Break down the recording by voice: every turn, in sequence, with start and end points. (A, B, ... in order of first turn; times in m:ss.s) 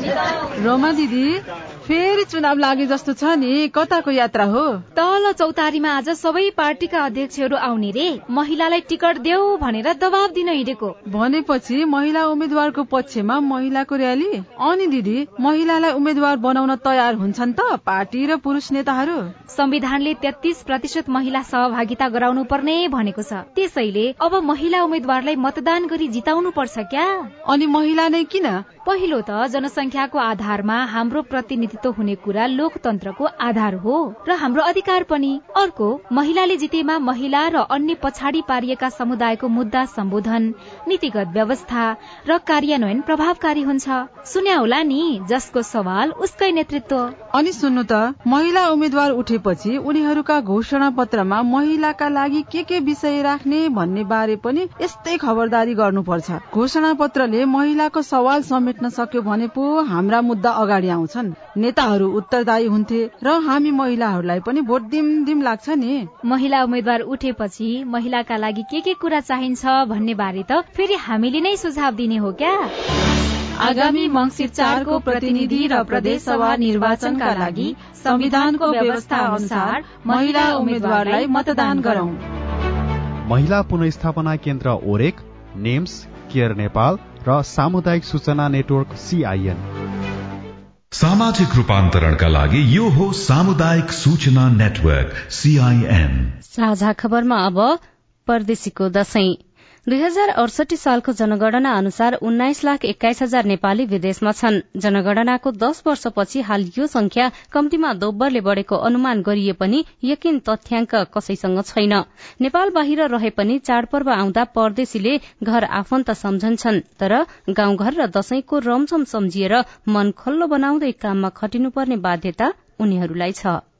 0:00.6-0:04.8 A
0:04.9-0:10.9 B
0:11.1-0:19.3 A
0:19.5-0:27.3 B
0:27.5-0:28.6 A
0:28.8-0:47.1 B
0:47.3-1:06.1 A
1:06.2-1:12.7 B
1:13.6-1:22.2 A
1:14.2-1:22.0 B
1:23.3-1:29.6 C
1:30.9-1:36.3 D
1:36.4-2:03.6 E